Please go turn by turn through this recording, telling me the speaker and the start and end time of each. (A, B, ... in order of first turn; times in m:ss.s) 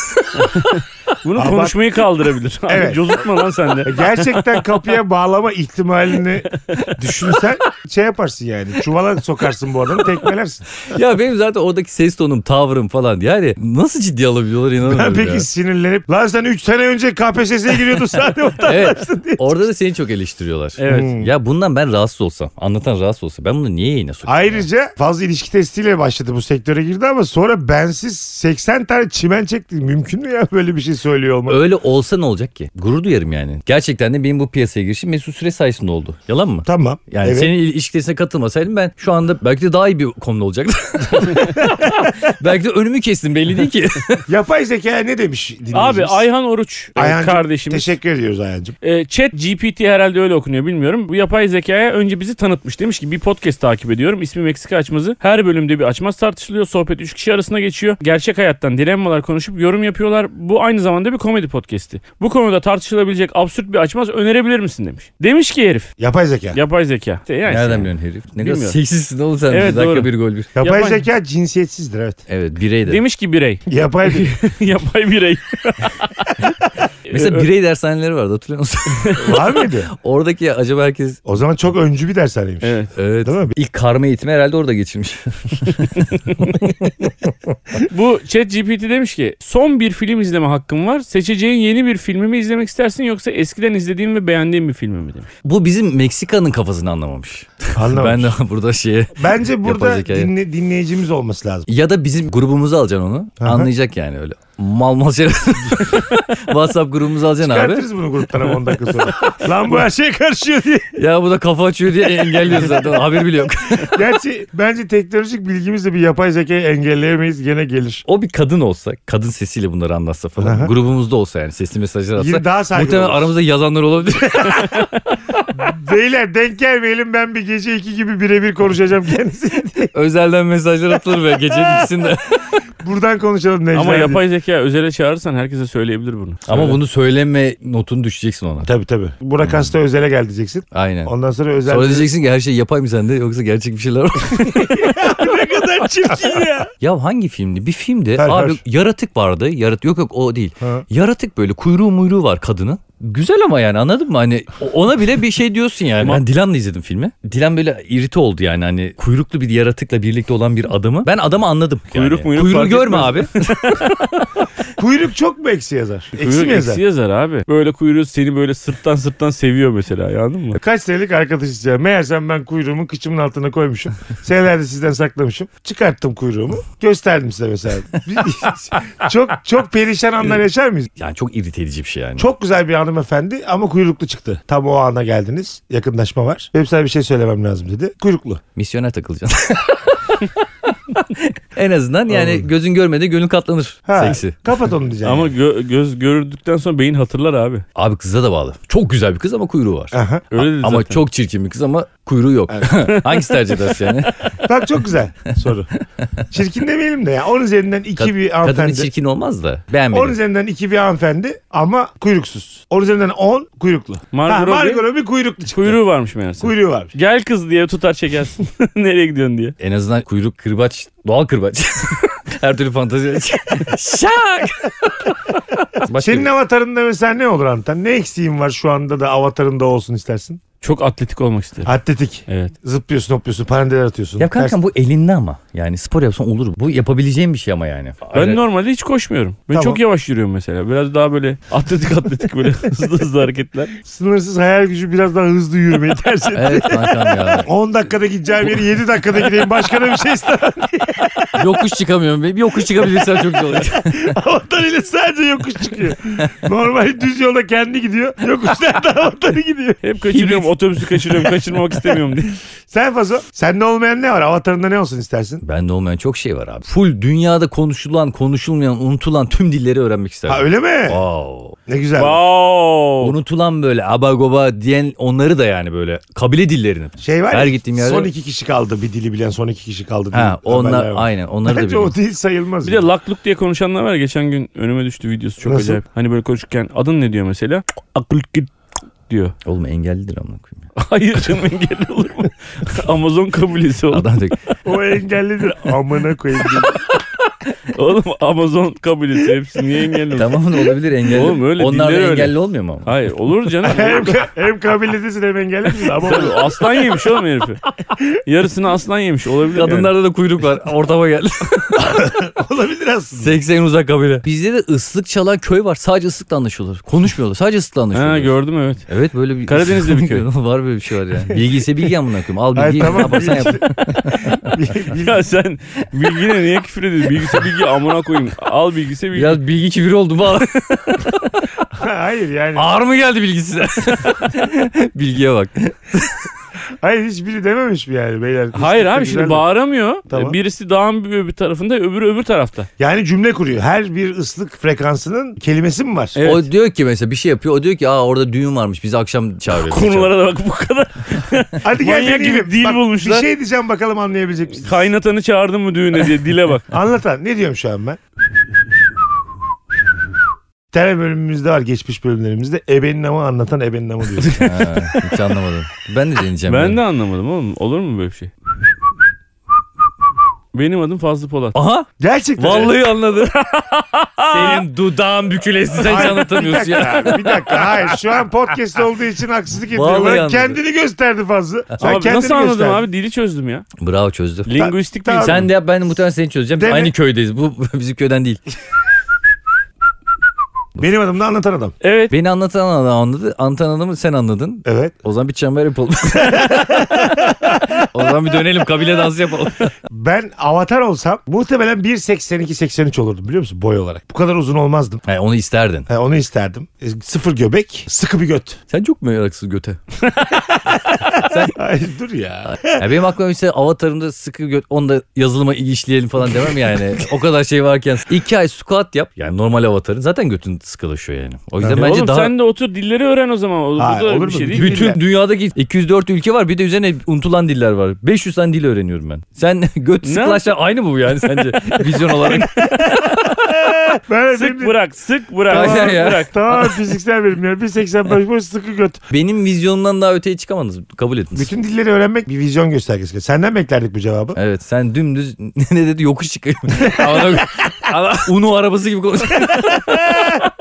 0:00.4-0:04.4 A
0:01.4-0:01.8 B
0:02.7-0:03.2 B
0:03.8-0:10.9 B
0:10.9-0:15.5 C
0:14.8-0:19.6 B
0:18.6-0:24.7 C
0:20.8-0:21.1 A
0:20.9-0:21.3 B
0:24.3-0:31.6 B
0:31.5-0:44.2 C
0:36.6-0:37.5 B
0:44.3-0:46.2 B
0:45.7-0:47.9 A
0:47.0-0:48.8 B
0:48.8-1:05.9 A
1:06.0-1:06.6 B
1:06.5-1:08.8 A
1:07.5-1:10.5 C
1:09.5-1:10.1 A
1:10.6-1:12.2 B
1:10.6-1:11.0 A
1:12.3-1:13.0 C
1:12.9-1:16.4 A
1:13.7-1:14.3 B
1:17.1-1:17.5 A
1:17.1-1:21.2 C
1:19.2-1:19.9 B
1:21.3-1:23.6 B
1:22.6-1:22.9 A
1:23.0-1:26.9 C
1:26.0-1:26.6 A
1:27.8-1:35.3 A
1:35.4-1:40.3 C
1:37.8-1:38.3 B
1:39.2-1:41.7 B
1:41.7-1:47.9 C
1:43.4-1:43.7 B
1:47.4-1:51.0 B
1:51.0-1:54.0 C
1:52.4-1:52.9 B
1:53.8-1:58.0 B
1:58.1-2:04.8 C
2:00.4-2:00.7 B
2:02.2-2:03.3 B
2:04.1-2:04.9 B
2:05.5-2:09.9 B
2:09.9-2:12.6 C
2:12.8-2:14.2 B
2:13.7-2:16.8 A
2:16.5-2:18.7 C
2:18.6-2:22.1 B
2:19.4-2:19.7 C
2:20.7-2:21.1 C
2:21.7-2:24.9 C
2:24.4-2:25.0 A
2:24.7-2:26.7 B
2:26.0-2:26.6 A
2:26.8-2:43.9 C
2:28.2-2:28.6 B
2:41.9-2:44.3 A
2:44.8-2:46.8 B
2:46.2-2:50.6 A
2:50.6-3:00.9 B
3:01.0-3:02.3 C
3:02.2-3:08.4 B
3:08.6-3:14.4 C
3:12.1-3:12.5 B
3:13.9-3:15.3 B
3:15.0-3:17.6 A
3:17.8-3:24.3 C
3:19.9-3:20.2 B
3:20.3-3:21.0 A
3:22.5-3:22.8 B
3:22.8-3:23.7 A
3:24.4-3:25.7 B
3:26.0-3:26.2 C
3:26.3-3:28.9 B
3:28.0-3:30.2 C
3:29.9-3:35.8 B
3:34.1-3:34.8 A
3:35.5-3:39.6 A
3:36.4-3:36.9 B
3:39.6-3:44.8 C
3:45.8-3:46.3 C
3:45.9-3:50.4 B
3:50.6-3:51.7 A
3:51.6-3:54.6 B
3:52.3-3:52.5 A
3:54.2-3:58.4 C
3:58.1-4:03.7 A
3:59.5-3:59.8 B
4:03.8-4:11.5 B
4:06.3-4:07.5 C
4:11.4-4:14.1 C
4:12.6-4:19.8 B
4:19.8-4:22.4 A
4:20.1-4:20.5 C
4:22.7-4:25.4 B
4:25.4-4:31.6 C
4:30.3-4:31.0 B
4:31.7-4:32.2 B
4:32.0-4:33.2 A
4:33.0-4:38.1 C
4:37.0-4:42.9 B
4:40.1-4:42.0 C
4:42.6-4:48.5 A
4:45.4-4:45.8 B
4:49.1-4:49.4 A
4:49.4-4:50.6 C
4:50.8-4:54.6 A
4:53.9-4:54.4 C
4:54.6-4:56.8 B
4:57.7-5:00.4 A
5:00.1-5:02.9 C
5:01.0-5:04.3 A
5:03.6-5:06.7 B
5:05.9-5:07.6 A
5:08.1-5:09.9 A
5:09.5-5:12.0 C
5:11.8-5:13.4 B
5:13.2-5:24.3 C
5:17.9-5:18.9 A
5:19.4-5:20.3 A
5:22.5-5:25.2 B
5:24.9-5:29.4 A
5:29.1-5:31.7 C
5:31.8-5:32.7 B
5:32.6-5:36.3 C
5:36.8-5:39.5 B
5:38.6-5:42.7 A
5:40.1-5:40.4 B
5:42.8-5:46.2 B
5:46.1-5:46.5 A
5:46.2-5:50.1 C
5:49.5-5:53.3 A
5:51.6-5:54.9 B
5:54.6-5:56.7 A
5:56.7-5:58.0 B
6:00.7-6:04.4 B
6:04.2-6:05.0 A
6:04.4-6:06.8 C
6:06.5-6:08.3 A
6:10.5-6:11.6 A
6:11.6-6:13.4 C
6:12.0-6:12.8 B
6:13.4-6:14.6 A
6:14.3-6:18.0 C
6:15.8-6:22.8 B
6:19.7-6:20.6 C
6:21.8-6:23.7 A
6:23.8-6:24.5 C
6:24.5-6:25.5 A
6:24.5-6:25.5 B
6:25.2-6:28.4 C
6:26.6-6:26.9 B
6:30.8-6:31.8 B
6:31.8-6:32.1 A
6:32.1-6:39.7 C
6:34.7-6:34.9 B
6:36.2-6:37.9 B
6:39.9-6:45.0 B
6:45.1-6:45.9 C
6:45.9-6:48.6 B
6:48.7-6:49.8 C
6:50.3-6:52.8 B
6:51.2-6:51.6 C
6:52.4-7:02.3 C
7:01.6-7:01.9 B
7:01.7-7:04.9 A
7:03.8-7:05.0 B
7:04.5-7:13.0 C
7:10.0-7:10.5 A
7:11.7-7:13.6 A
7:12.9-7:14.7 B
7:14.3-7:16.4 A
7:15.5-7:16.3 C
7:15.5-7:19.0 B
7:19.1-7:21.5 C
7:21.4-7:24.4 B
7:24.4-7:30.5 C
7:27.2-7:27.4 B
7:27.9-7:28.2 A
7:29.7-7:30.2 B